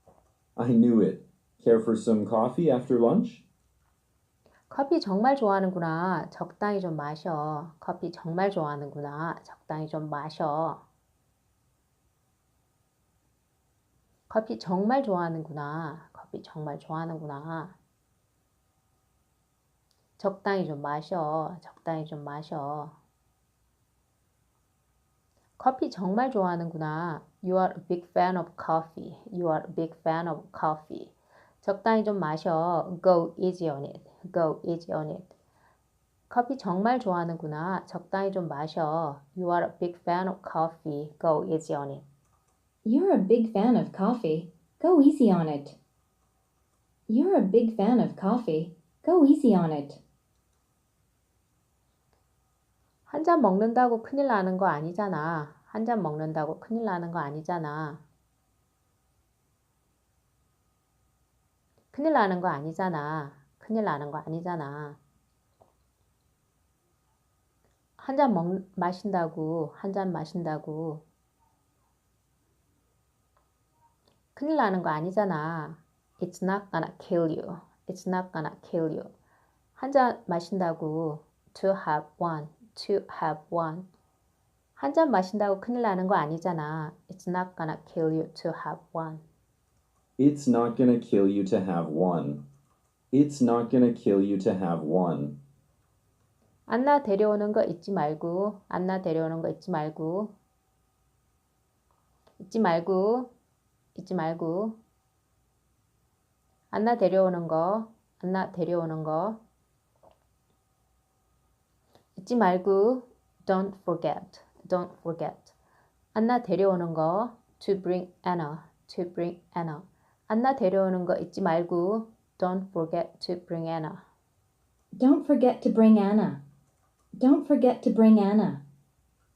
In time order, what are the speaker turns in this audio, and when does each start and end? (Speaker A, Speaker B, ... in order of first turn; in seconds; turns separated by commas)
Speaker A: 0.6-3.5, Speaker B: 4.7-10.8, Speaker B: 14.3-17.8, Speaker B: 20.2-23.0, Speaker B: 25.6-35.3, Speaker B: 36.3-42.0, Speaker C: 42.9-45.8, Speaker C: 47.1-50.0, Speaker B: 53.1-58.0, Speaker B: 61.9-65.0, Speaker B: 68.0-71.0, Speaker B: 74.3-79.1, Speaker B: 79.8-83.9, Speaker B: 84.8-89.2, Speaker A: 90.2-92.4, Speaker A: 93.1-95.4, Speaker B: 96.7-100.3, Speaker B: 102.4-103.3, Speaker B: 104.0-104.8, Speaker B: 106.7-109.4, Speaker B: 112.2-115.5, Speaker B: 116.1-124.0, Speaker C: 125.0-126.4, Speaker C: 127.2-128.6